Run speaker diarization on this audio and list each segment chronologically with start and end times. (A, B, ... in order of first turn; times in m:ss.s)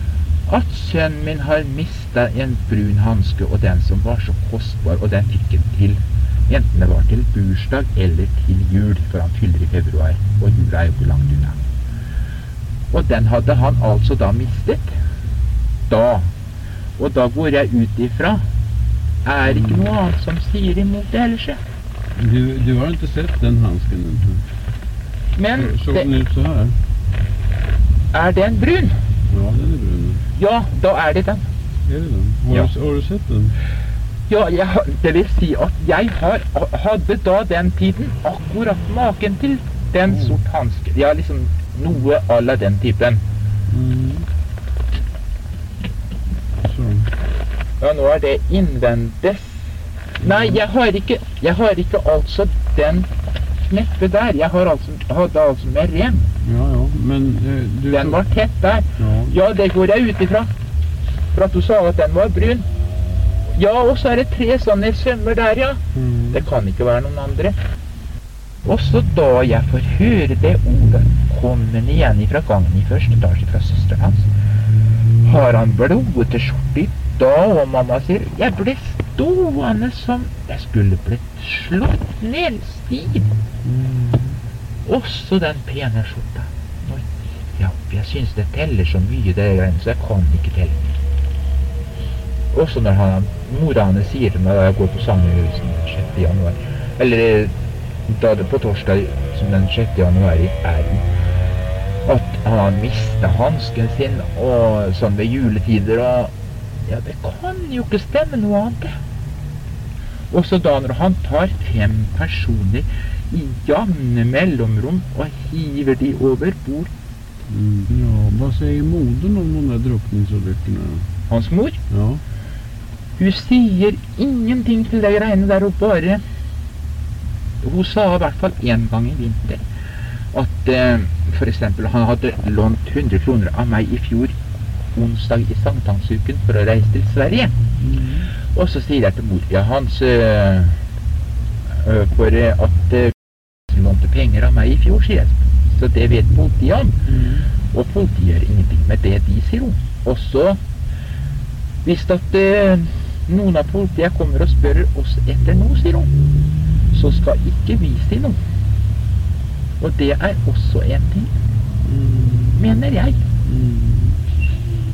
0:00.4-0:11.6 A
0:12.9-0:14.9 A
0:15.9-0:16.3 A
0:17.0-0:18.4 A
0:19.2-0:21.6 A
0:19.4-0:19.9 B
0:22.2-0:24.4 B
0:25.3-0:26.1 A
0:25.6-0:26.7 B
0:28.1-0:29.0 A
0:29.3-0:30.2 B
0:30.3-0:31.5 A
0:31.8-0:33.5 B
0:34.3-0:43.2 A
0:40.0-0:40.4 B
0:43.7-0:44.3 B
0:46.6-0:47.1 B
0:47.8-0:53.1 A
0:50.2-0:50.6 B
0:53.6-0:56.3 A
0:56.4-0:58.2 B
0:57.8-1:00.5 A
0:59.0-0:59.4 B
1:01.3-1:02.7 A
1:03.5-1:07.6 A
1:05.9-1:06.4 B
1:08.6-1:14.3 A
1:15.2-1:23.3 A
1:23.6-1:24.4 B
1:24.8-1:30.8 A
1:32.5-1:37.5 A
1:38.1-1:41.0 A
1:42.0-1:46.3 A
1:46.9-1:48.9 A
1:50.3-1:56.9 A
1:57.5-2:01.0 B
2:01.3-2:01.8 A
2:01.9-2:02.2 B
2:03.2-2:06.2 A
2:07.6-2:09.6 A
2:10.3-2:14.4 A
2:14.9-2:17.6 A
2:17.8-2:18.3 B
2:18.5-2:20.8 A
2:21.8-2:23.1 A
2:23.7-2:27.0 A
2:27.1-2:27.5 B
2:27.7-2:30.6 A
2:31.8-2:36.1 A
2:36.9-2:38.4 A
2:39.8-2:41.3 A
2:41.8-2:42.6 B
2:42.6-2:43.3 A
2:43.4-2:44.2 B